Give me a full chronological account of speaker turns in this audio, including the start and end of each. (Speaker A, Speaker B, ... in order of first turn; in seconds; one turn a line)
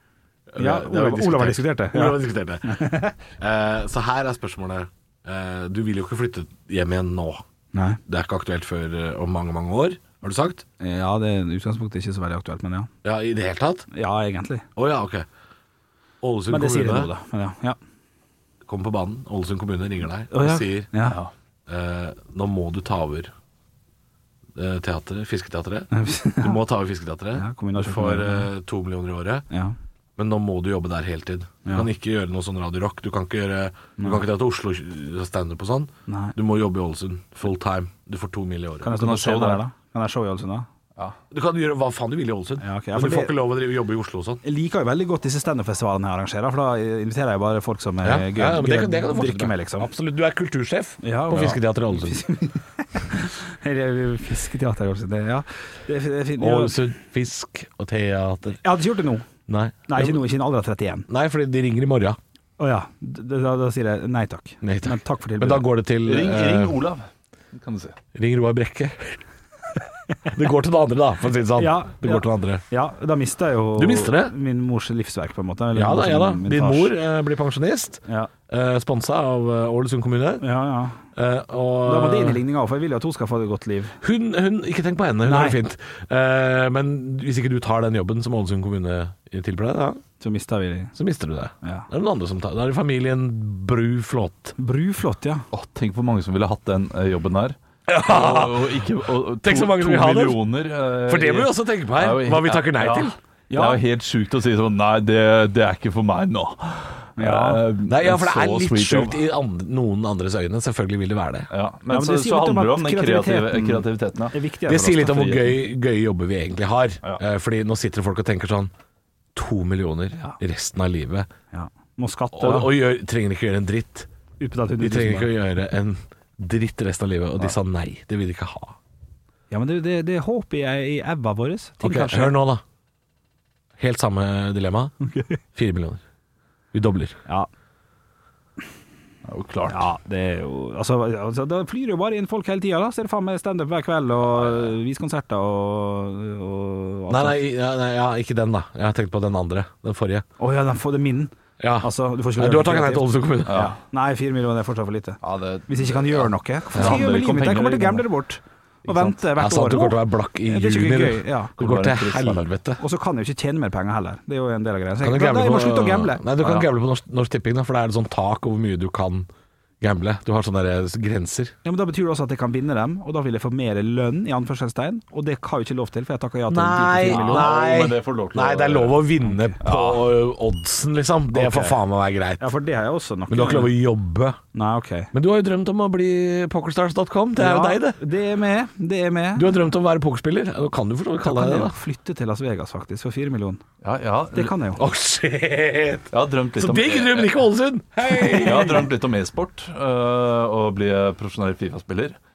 Speaker A: 0.5-7.4
Speaker B: 0.6-3.1
Speaker B: 7.7-8.0
Speaker A: 8.1-10.6
Speaker B: 10.8-12.9
Speaker A: 13.0-13.8
Speaker B: 13.9-14.6
Speaker A: 14.8-15.2
Speaker A: 16.2-17.1
Speaker B: 16.5-17.8
Speaker A: 18.6-20.9
Speaker B: 20.3-21.2
Speaker C: 21.0-21.3
Speaker A: 21.7-23.3
Speaker A: 24.6-25.9
Speaker B: 25.9-26.6
Speaker A: 26.4-29.4
Speaker B: 27.4-28.5
Speaker B: 29.5-29.8
Speaker A: 30.2-38.9
Speaker B: 34.0-34.2
Speaker B: 36.1-36.3
Speaker B: 38.8-40.7
Speaker C: 38.9-39.6
Speaker A: 41.3-44.4
Speaker B: 42.6-43.4
Speaker B: 44.4-49.9
Speaker A: 48.0-52.2
Speaker B: 51.0-56.8
Speaker A: 56.4-58.6
Speaker B: 58.6-59.2
Speaker A: 59.5-60.2
Speaker B: 59.9-61.0
Speaker A: 61.1-62.2
Speaker B: 62.6-65.7
Speaker A: 64.6-66.8
Speaker C: 66.0-68.0
Speaker A: 68.1-69.2
Speaker A: 70.3-72.6
Speaker B: 71.6-76.9
Speaker A: 73.8-74.3
Speaker A: 75.7-80.4
Speaker B: 80.4-81.0
Speaker A: 81.1-82.4
Speaker B: 81.8-84.0
Speaker A: 84.0-90.0
Speaker B: 85.2-85.6
Speaker B: 90.2-90.9
Speaker A: 91.0-94.5
Speaker B: 91.6-91.9
Speaker B: 94.6-95.5
Speaker C: 95.5-109.2
Speaker A: 97.9-100.4
Speaker A: 101.1-103.2
Speaker B: 103.5-103.8
Speaker B: 107.2-107.6
Speaker A: 107.9-111.5
Speaker C: 111.5-114.3
Speaker B: 111.9-115.2
Speaker A: 114.7-118.7
Speaker C: 115.0-115.6
Speaker A: 119.3-121.3
Speaker B: 120.1-120.4
Speaker B: 121.5-122.7
Speaker A: 122.3-124.1
Speaker B: 124.4-125.3
Speaker A: 124.8-128.8
Speaker B: 129.5-132.4
Speaker A: 131.8-132.6
Speaker A: 133.8-134.9
Speaker B: 135.1-135.4
Speaker A: 135.5-136.0
Speaker A: 136.7-137.2
Speaker C: 139.2-139.9
Speaker B: 139.7-147.4
Speaker A: 147.1-150.2
Speaker B: 150.4-161.5
Speaker A: 151.6-153.7
Speaker C: 153.5-153.8
Speaker C: 155.2-158.0
Speaker A: 156.7-157.0
Speaker C: 158.9-159.2
Speaker A: 159.4-162.8
Speaker C: 161.6-162.4
Speaker B: 162.8-166.2
Speaker A: 165.0-169.3
Speaker C: 166.4-166.7
Speaker A: 169.8-171.5
Speaker B: 171.6-177.5
Speaker A: 176.5-182.4
Speaker C: 177.1-179.0
Speaker B: 179.2-179.6
Speaker C: 179.6-180.1
Speaker B: 181.3-181.8
Speaker B: 182.4-183.8
Speaker A: 183.3-184.4
Speaker B: 184.5-185.1
Speaker A: 185.1-188.0
Speaker B: 187.3-189.5
Speaker A: 189.3-191.8
Speaker B: 191.2-193.6
Speaker C: 193.8-194.6
Speaker B: 194.3-194.8
Speaker A: 194.8-198.8
Speaker C: 196.1-197.3
Speaker B: 198.1-198.9
Speaker C: 198.3-202.2